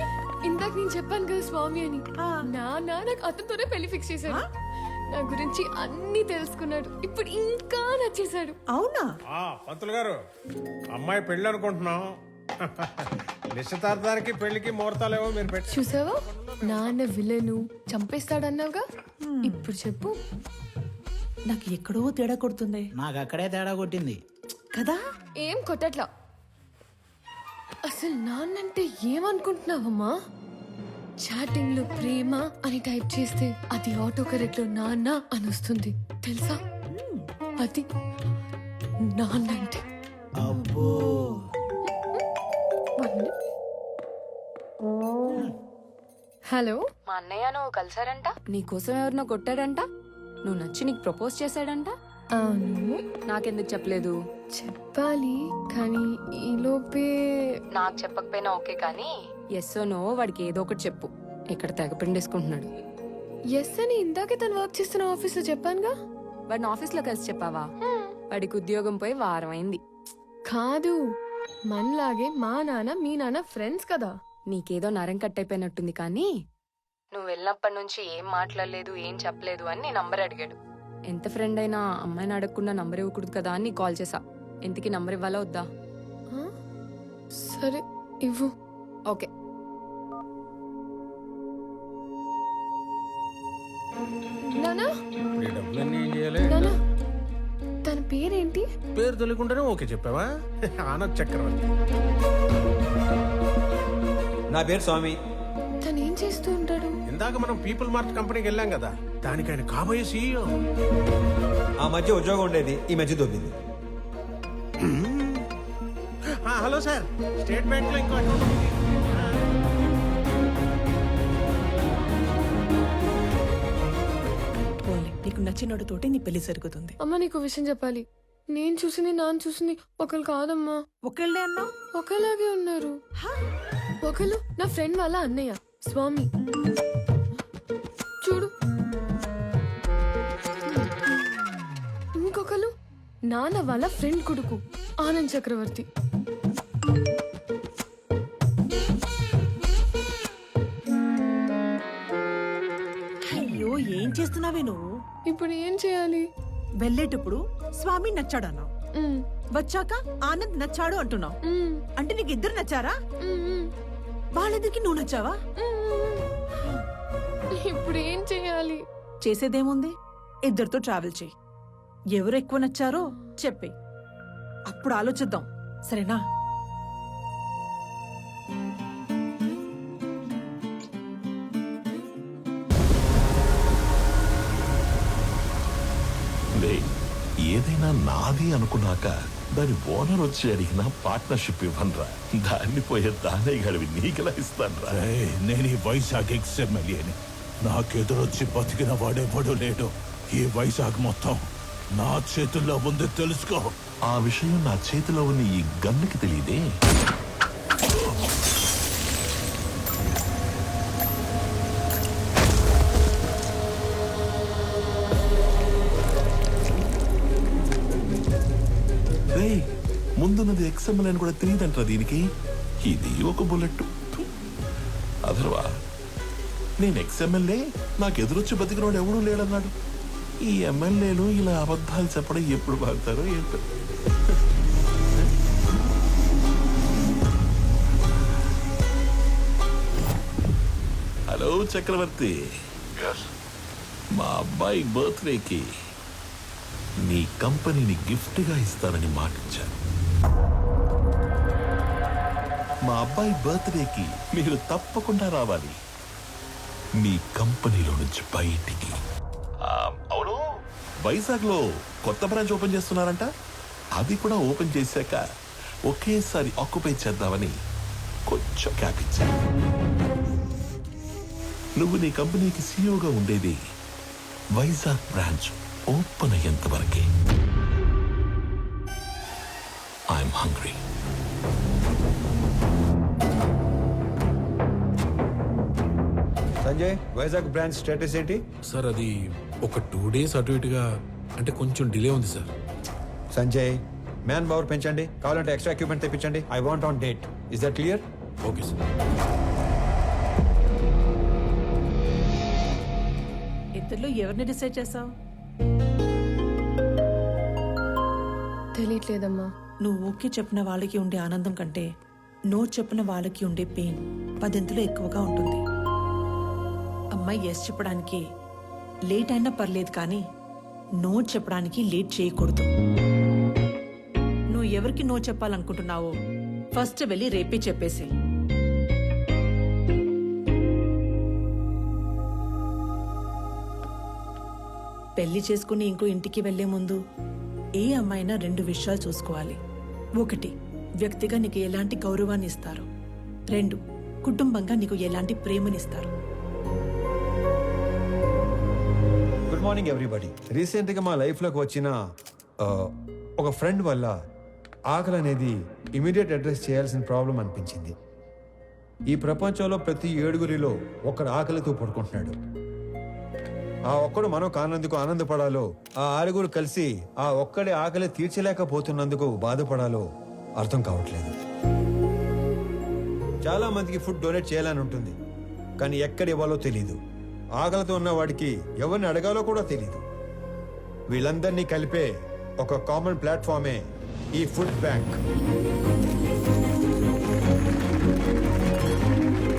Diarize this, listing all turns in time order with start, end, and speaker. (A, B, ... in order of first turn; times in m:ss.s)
0:00.4-0:04.4 A
0:05.1-0:08.6 A
0:08.7-0:09.1 B
0:09.3-0:10.2 C
0:10.9-0:17.0 C
0:15.7-0:18.8 A
0:19.3-0:19.6 B
0:19.4-0:20.2 A
0:21.5-0:22.8 B
0:23.0-0:24.2 D
0:24.7-0:25.0 B
0:25.4-0:26.1 A
0:27.8-0:30.1 A
0:31.2-0:36.6 A
0:37.6-0:37.8 A
0:39.0-0:39.8 A
0:40.4-0:41.4 D
0:43.0-0:43.3 A
0:46.5-0:46.8 A
0:47.1-0:49.8 E
0:50.4-0:51.9 E
0:52.4-0:53.0 A
0:53.3-0:54.1 E
0:54.5-0:57.4 A
0:57.7-1:02.7 E
1:03.5-1:05.9 A
1:06.5-1:07.6 E
1:07.8-1:08.1 A
1:08.3-1:09.8 E
1:10.4-1:11.0 A
1:11.7-1:14.1 A
1:14.5-1:16.3 E
1:17.1-1:20.6 E
1:21.1-1:25.7 E
1:27.4-1:28.5 A
1:34.5-1:34.9 A
1:35.4-1:36.7 C
1:36.4-1:36.8 A
1:37.8-1:38.7 A
1:39.0-1:41.7 C
1:44.5-1:45.1 F
1:45.8-1:47.0 A
1:47.1-1:50.5 C
1:51.8-1:53.5 F
1:54.8-1:55.4 C
1:56.4-1:59.3 C
2:04.8-2:06.9 B
2:07.0-2:10.8 A
2:11.0-2:11.7 B
2:11.9-2:13.0 A
2:14.0-2:16.3 A
2:18.2-2:18.5 A
2:22.2-2:22.7 A
2:23.3-2:25.8 A
2:33.3-2:34.8 B
2:35.3-2:36.2 A
2:36.8-2:38.7 B
2:39.0-2:39.2 A
2:39.6-2:41.3 B
2:41.4-2:41.8 A
2:42.0-2:42.9 B
2:43.2-2:43.7 A
2:44.3-2:45.4 B
2:45.6-2:46.2 A
2:47.5-2:48.8 A
2:49.2-2:49.9 B
2:50.5-2:51.3 B
2:52.1-2:53.7 B
2:54.7-2:56.2 B
3:06.6-3:06.9 G
3:07.5-3:15.0 G
3:14.9-3:23.7 H
3:24.1-3:26.6 G
3:39.3-3:39.6 G
3:40.2-3:42.2 G
3:42.8-3:43.9 G
3:45.3-3:45.6 G
3:46.8-3:49.7 G
3:50.4-3:53.6 G
4:01.3-4:02.3 G
4:04.2-4:05.6 G
4:07.0-4:09.7 G
4:12.9-4:15.8 G
4:17.0-4:19.0 G
4:19.6-4:20.4 G
4:21.0-4:23.2 G
4:24.0-4:25.2 G
4:25.9-4:27.5 G
4:28.3-4:29.3 G
4:31.8-4:33.6 G
4:34.6-4:37.0 G
4:40.1-4:40.8 G
4:46.6-4:48.4 F
4:48.7-4:49.1 I
4:49.6-4:50.8 I
4:51.4-4:52.5 I
4:53.3-4:53.7 F
4:54.2-4:58.0 F
4:58.4-4:58.7 I
5:03.8-5:05.1 B
5:08.7-5:09.5 A
5:09.8-5:11.8 B
5:12.5-5:15.6 B
5:17.1-5:18.2 B
5:19.1-5:20.2 B
5:21.0-5:22.7 B
5:24.5-5:26.1 B
5:26.7-5:28.1 B
5:35.2-5:37.0 B
5:37.8-5:39.6 B
5:40.2-5:40.5 B
5:41.0-5:42.8 B
5:43.5-5:46.1 B
5:49.5-5:51.9 F
5:52.6-5:54.1 F
5:54.9-5:57.9 F
5:59.1-6:02.4 F
6:03.9-6:10.0 F
6:10.6-6:11.3 F
6:13.4-6:15.1 F
6:15.8-6:17.0 F
6:17.6-6:20.0 F
6:21.1-6:22.1 F
6:22.6-6:23.8 F
6:24.4-6:25.2 F